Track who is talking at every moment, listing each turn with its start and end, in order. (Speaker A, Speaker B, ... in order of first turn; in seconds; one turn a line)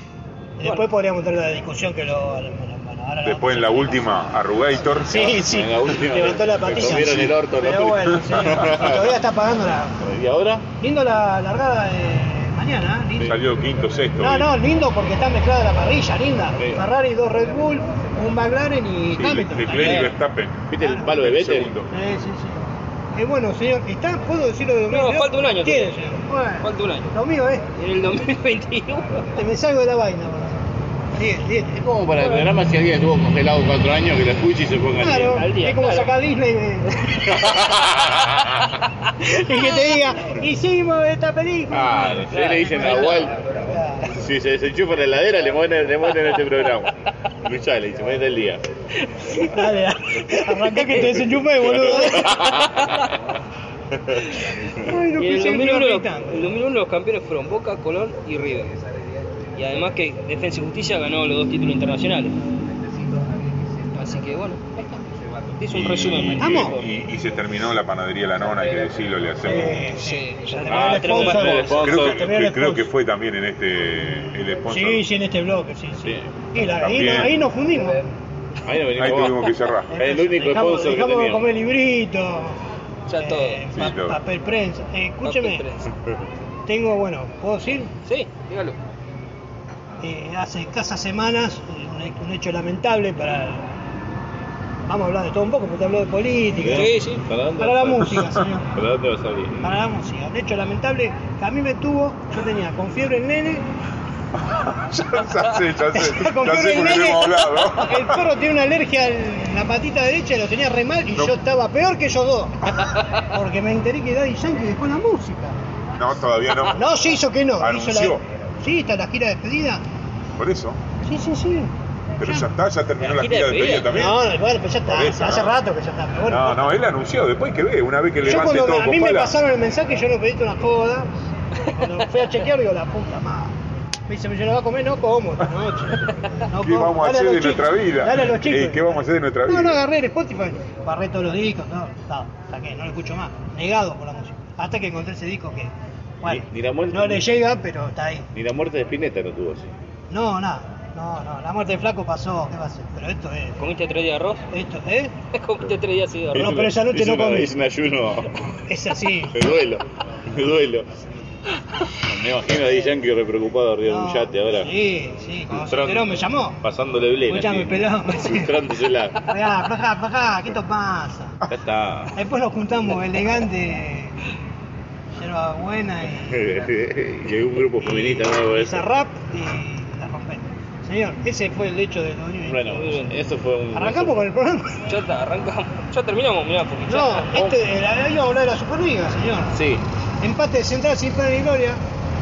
Speaker A: 0.6-4.1
Speaker B: 3.2-5.4
Speaker A: 5.0-10.0
Speaker C: 5.1-9.2
Speaker B: 6.7-7.3
Speaker B: 8.1-8.8
Speaker C: 10.0-10.6
Speaker A: 10.8-13.4
Speaker B: 13.2-14.6
Speaker A: 14.2-20.1
Speaker C: 16.6-16.9
Speaker B: 19.1-21.9
Speaker D: 19.5-20.2
Speaker C: 20.7-21.8
Speaker A: 20.8-21.1
Speaker A: 21.9-27.6
Speaker D: 24.9-27.1
Speaker D: 27.8-29.2
Speaker A: 29.4-30.6
Speaker A: 31.1-31.8
Speaker C: 31.7-35.4
Speaker D: 32.2-32.5
Speaker A: 35.0-37.0
Speaker D: 35.3-36.1
Speaker C: 37.2-38.7
Speaker D: 38.8-40.0
Speaker A: 39.2-42.2
Speaker C: 41.7-43.3
Speaker D: 42.3-43.3
Speaker A: 42.7-44.1
Speaker C: 44.1-46.9
Speaker C: 47.4-48.6
Speaker D: 49.2-49.5
Speaker A: 49.4-52.4
Speaker D: 50.5-51.0
Speaker C: 51.6-52.7
Speaker D: 51.9-53.1
Speaker A: 54.8-56.5
Speaker D: 55.2-58.7
Speaker D: 59.5-62.3
Speaker D: 63.9-65.0
Speaker D: 65.6-66.9
Speaker B: 65.7-69.9
Speaker A: 66.4-66.8
Speaker A: 69.4-72.9
Speaker D: 69.8-71.8
Speaker C: 70.7-72.3
Speaker B: 71.8-75.0
Speaker A: 74.7-78.0
Speaker C: 76.0-76.3
Speaker B: 76.7-77.4
Speaker C: 78.6-81.5
Speaker B: 78.9-79.9
Speaker A: 79.9-82.6
Speaker D: 83.1-83.6
Speaker A: 83.1-85.7
Speaker B: 83.7-84.2
Speaker D: 85.2-85.9
Speaker A: 86.7-87.9
Speaker D: 88.0-88.8
Speaker A: 90.0-93.7
Speaker A: 94.9-96.9
Speaker C: 96.5-99.7
Speaker D: 96.7-97.2
Speaker A: 97.6-98.7
Speaker A: 99.6-103.6
Speaker B: 104.4-108.2
Speaker A: 105.9-115.6
Speaker B: 116.0-116.9
Speaker A: 116.7-119.8
Speaker B: 117.6-118.2
Speaker B: 120.3-120.8
Speaker A: 121.0-121.7
Speaker B: 122.2-125.5
Speaker A: 122.2-122.5
Speaker D: 123.0-124.1
Speaker A: 123.9-126.7
Speaker B: 126.2-129.4
Speaker A: 128.2-133.5
Speaker A: 134.1-145.7
Speaker B: 136.6-139.8
Speaker A: 146.2-148.3
Speaker C: 146.2-147.3
Speaker C: 148.3-149.7
Speaker A: 150.1-153.6
Speaker D: 153.6-154.4
Speaker A: 154.5-155.1
Speaker D: 155.3-156.5
Speaker C: 156.3-158.3
Speaker A: 156.3-157.5
Speaker A: 158.7-159.3
Speaker C: 159.3-160.9
Speaker C: 162.0-164.7
Speaker A: 163.8-166.6
Speaker C: 165.5-169.2
Speaker A: 167.3-168.6
Speaker A: 169.3-171.4
Speaker C: 171.5-172.1
Speaker A: 172.1-174.2
Speaker A: 175.2-176.5
Speaker C: 176.2-178.9
Speaker A: 177.8-183.1
Speaker C: 182.4-184.3
Speaker A: 183.7-184.9
Speaker D: 184.9-187.3
Speaker A: 186.9-189.6
Speaker C: 187.3-187.6
Speaker C: 189.5-189.8
Speaker A: 190.2-191.8